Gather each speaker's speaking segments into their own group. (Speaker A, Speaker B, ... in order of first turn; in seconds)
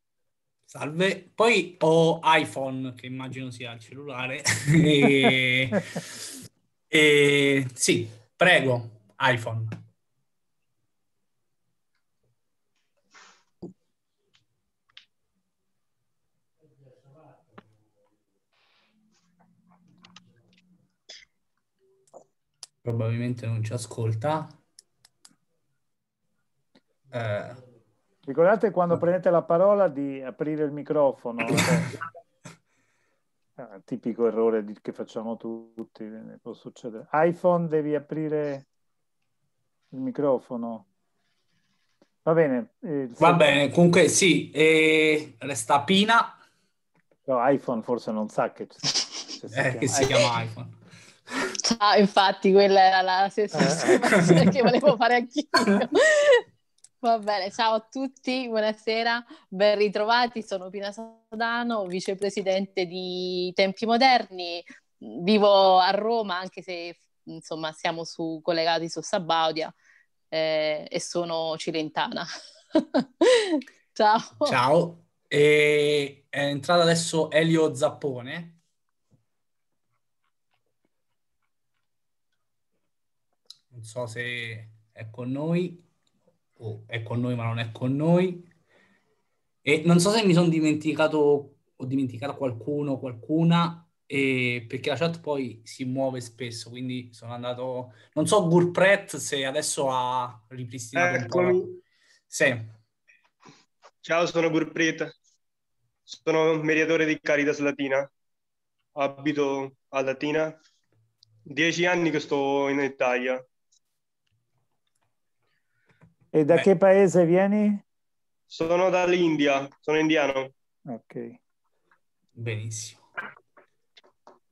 Speaker A: 0.7-6.0, 6.9-9.8, 22.8-24.6, 27.1-27.6, 31.5-31.9, 43.2-46.4, 49.5-50.7, 54.1-54.7, 74.5-78.6, 83.7-85.8, 86.6-88.5, 89.6-101.7, 102.3-102.7, 122.4-123.0
Speaker B: 28.2-31.9, 33.6-38.6, 39.9-40.9, 42.2-43.6, 47.3-50.1, 116.3-117.8, 120.9-121.4
Speaker C: 51.6-56.4, 57.0-69.7, 70.3-74.6
Speaker D: 104.0-105.1, 106.1-108.0, 109.0-110.5, 111.5-113.4, 118.5-120.5